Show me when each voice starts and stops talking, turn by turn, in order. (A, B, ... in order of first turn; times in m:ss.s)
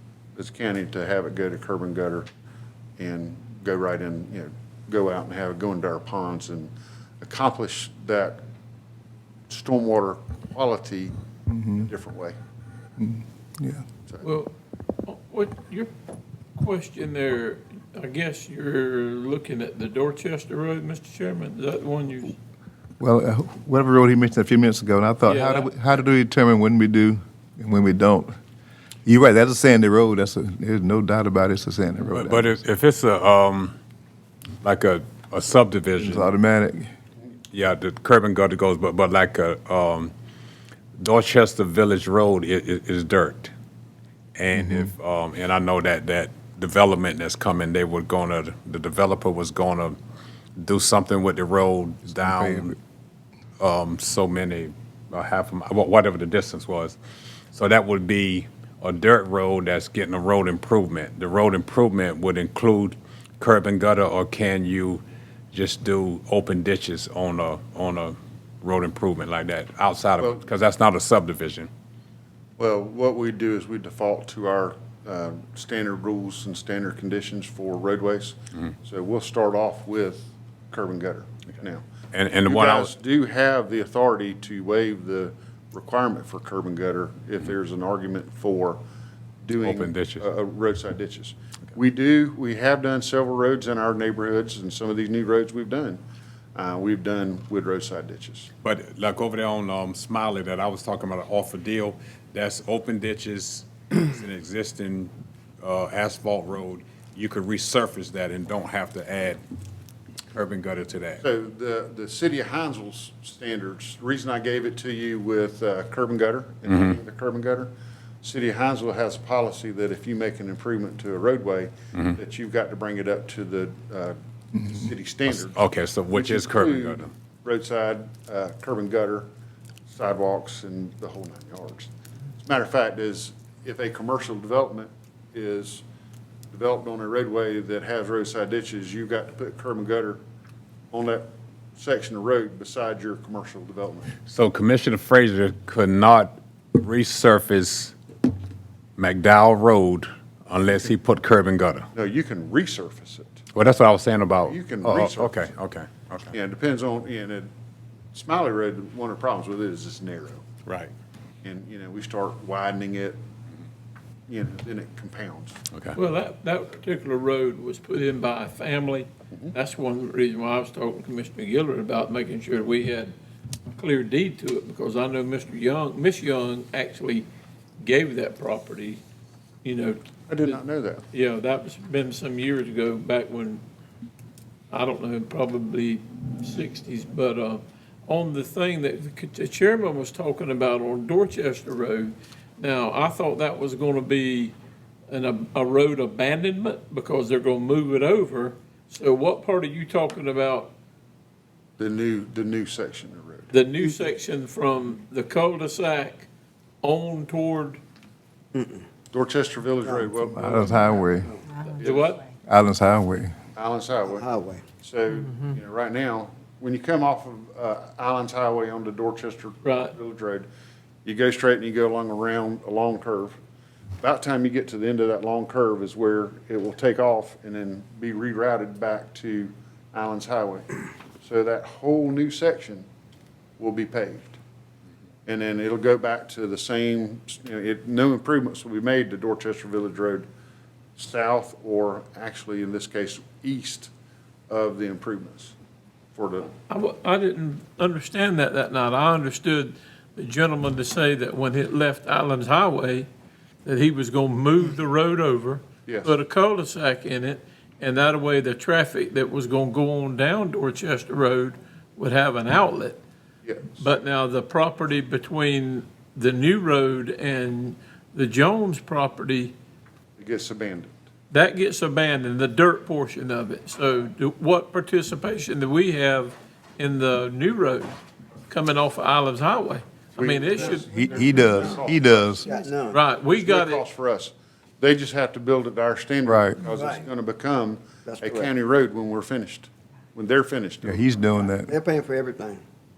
0:00.4-0:02.3 A
0:03.0-0:08.4 A
0:09.5-0:11.1 A
0:11.5-0:11.9 B
0:11.8-0:12.4 A
0:13.0-0:13.8 B
0:14.2-0:14.5 C
0:15.0-0:15.9 C
0:16.6-0:22.4 C
0:23.0-0:28.3 B
0:25.2-0:25.7 C
0:29.0-0:32.6 B
0:32.1-0:33.7 D
0:34.6-0:36.3 D
0:36.0-0:36.9 B
0:37.5-0:40.1 D
0:41.0-0:43.5 D
0:44.4-0:50.0 D
0:44.6-0:44.9 B
0:50.6-0:52.8 D
0:52.1-0:52.7 B
0:53.6-0:57.0 D
0:57.5-1:11.7 D
1:12.6-1:21.8 A
1:22.1-1:22.9 D
1:22.4-1:28.8 A
1:29.4-1:36.0 A
1:29.6-1:30.3 D
1:36.6-1:38.5 A
1:38.6-1:49.4 D
1:50.3-1:51.2 D
1:51.2-1:57.7 A
1:56.6-1:57.0 D
1:58.2-2:09.3 A
2:05.3-2:07.1 D
2:09.9-2:11.9 A
2:12.4-2:15.8 A
2:16.5-2:20.2 A
2:20.9-2:24.1 A
2:24.2-2:27.9 D
2:29.0-2:31.9 D
2:31.9-2:33.4 A
2:33.6-2:36.3 D
2:34.4-2:35.6 A
2:36.3-2:37.5 A
2:38.1-2:40.4 A
2:40.7-2:40.9 D
2:41.4-2:43.2 A
2:44.3-2:45.6 A
2:45.7-2:46.0 D
2:45.9-2:53.1 C
2:53.8-2:57.2 C
2:57.8-2:59.0 C
2:59.6-3:00.6 C
3:00.3-3:01.0 A
3:01.1-3:03.6 C
3:04.7-3:14.5 C
3:15.1-3:20.7 C
3:21.8-3:23.5 A
3:23.5-3:26.3 C
3:26.8-3:27.8 C
3:28.6-3:28.8 E
3:29.1-3:31.2 A
3:30.2-3:31.3 B
3:31.7-3:32.2 A
3:31.8-3:32.3 C
3:32.4-3:33.3 B
3:33.6-3:40.5 A
3:34.1-3:34.6 E
3:39.6-3:40.0 C
3:41.0-3:43.3 A
3:44.0-3:50.7 A
3:51.2-3:52.9 A
3:53.6-3:54.4 A
3:55.2-4:00.2 A
4:01.0-4:03.9 A
4:04.5-4:05.6 A
4:06.2-4:06.5 A
4:06.7-4:13.1 C
4:13.6-4:23.0 C
4:15.8-4:16.2 A
4:23.4-4:23.9 A
4:23.8-4:29.5 C
4:30.2-4:30.9 A
4:31.3-4:38.0 C
4:38.5-4:40.9 C
4:40.2-4:51.2 A
4:40.9-4:42.5 B
4:41.5-4:41.7 E
4:42.4-4:43.0 E
4:42.9-4:43.8 C
4:46.2-4:46.6 B
4:46.7-4:47.1 E
4:48.0-4:48.5 E
4:50.8-4:51.7 B
4:51.7-4:52.6 E